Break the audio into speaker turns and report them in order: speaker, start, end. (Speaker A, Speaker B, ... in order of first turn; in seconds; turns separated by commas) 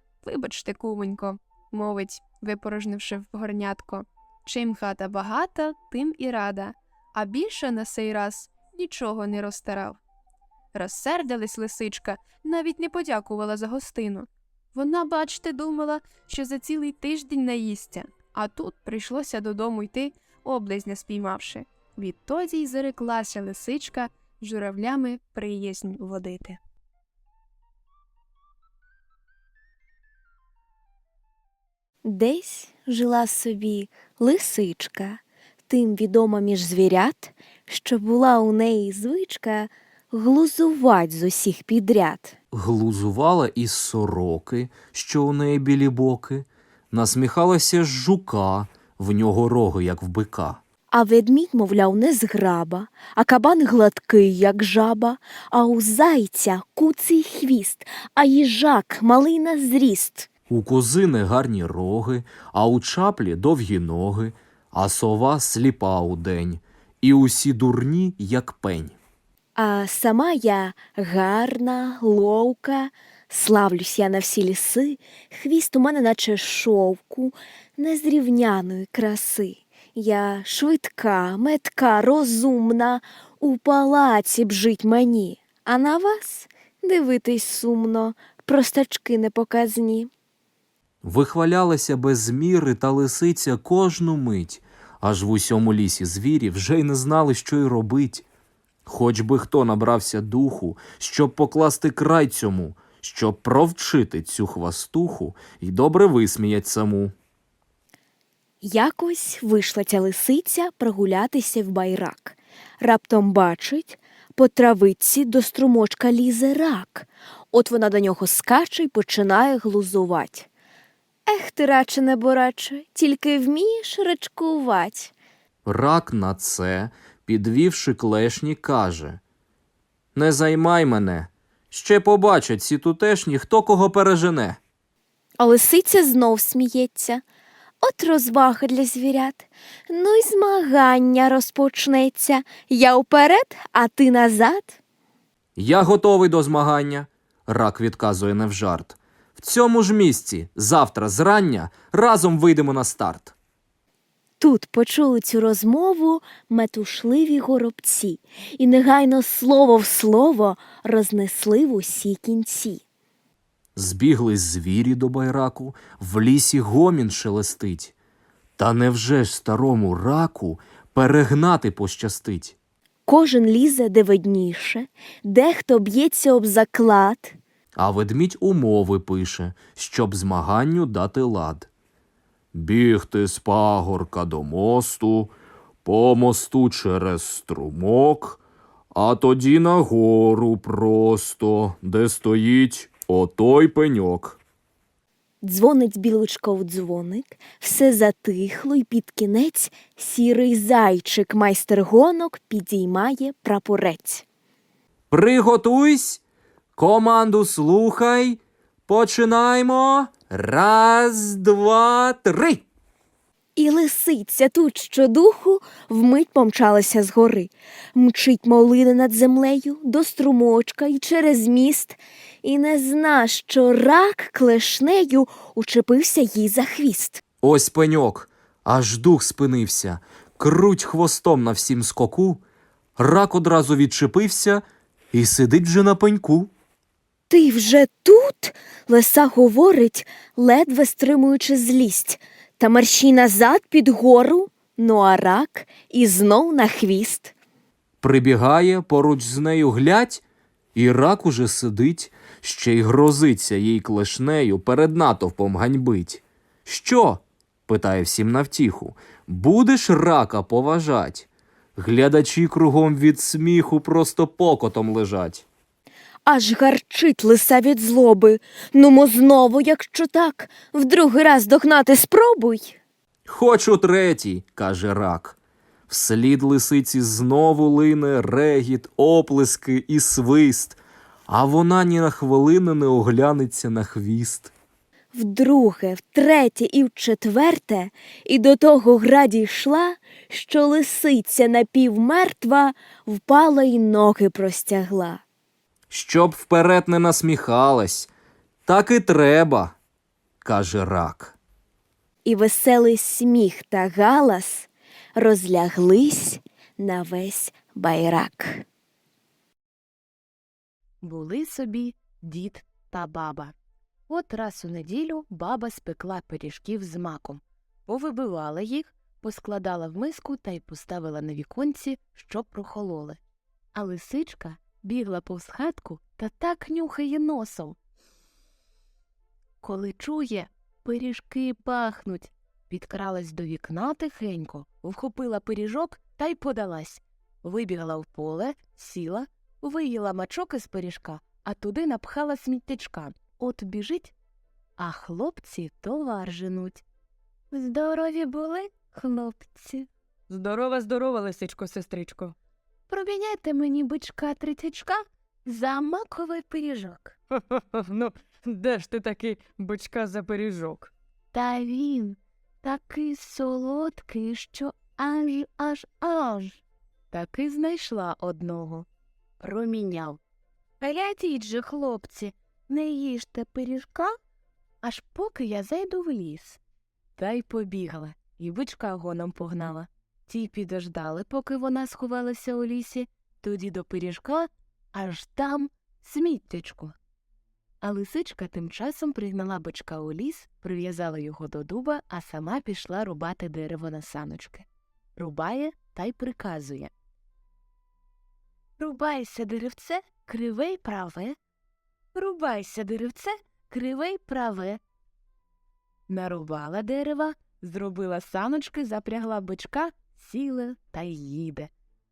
Speaker A: 0.2-10.0, Speaker A: 10.7-26.6, Speaker B: 32.0-42.3, Speaker C: 42.5-50.6, Speaker B: 50.9-60.3, Speaker C: 60.5-69.0, Speaker B: 69.5-90.1, Speaker C: 91.0-98.2, Speaker C: 98.8-107.1, Speaker B: 108.6-120.5, Speaker B: 121.2-125.1, Speaker C: 125.7-129.2, Speaker C: 130.1-134.6, Speaker B: 135.4-137.2, Speaker B: 137.8-144.8, Speaker C: 145.6-153.3, Speaker B: 154.4-162.8, Speaker C: 163.8-167.9, Speaker C: 168.6-172.6, Speaker B: 173.1-177.4, Speaker C: 177.8-181.7, Speaker C: 182.5-188.4, Speaker C: 188.9-194.4, Speaker B: 195.4-204.2, Speaker C: 205.1-206.2, Speaker C: 206.8-212.6, Speaker B: 213.6-227.2, Speaker C: 227.4-232.4, Speaker C: 233.0-236.5, Speaker B: 237.3-247.3, Speaker C: 248.0-250.2, Speaker C: 250.7-265.4, Speaker B: 266.2-272.8, Speaker C: 273.3-275.4, Speaker C: 275.9-284.5, Speaker B: 285.1-295.2, Speaker C: 295.9-298.1, Speaker C: 298.7-299.8, Speaker C: 300.4-301.3, Speaker B: 302.2-308.6, Speaker D: 311.0-313.5, Speaker D: 314.1-323.2, Speaker D: 323.7-327.8, Speaker D: 329.6-344.1, Speaker D: 344.8-346.8, Speaker D: 347.5-349.9, Speaker E: 350.3-352.3, Speaker D: 352.9-357.1, Speaker E: 357.3-360.9, Speaker D: 361.3-366.6, Speaker D: 367.1-368.9, Speaker D: 369.4-370.2, Speaker D: 370.8-374.1, Speaker D: 374.8-376.6, Speaker D: 377.2-386.9, Speaker D: 387.8-394.6, Speaker D: 395.2-396.9, Speaker D: 398.8-401.4, Speaker D: 402.1-404.8, Speaker D: 406.1-411.7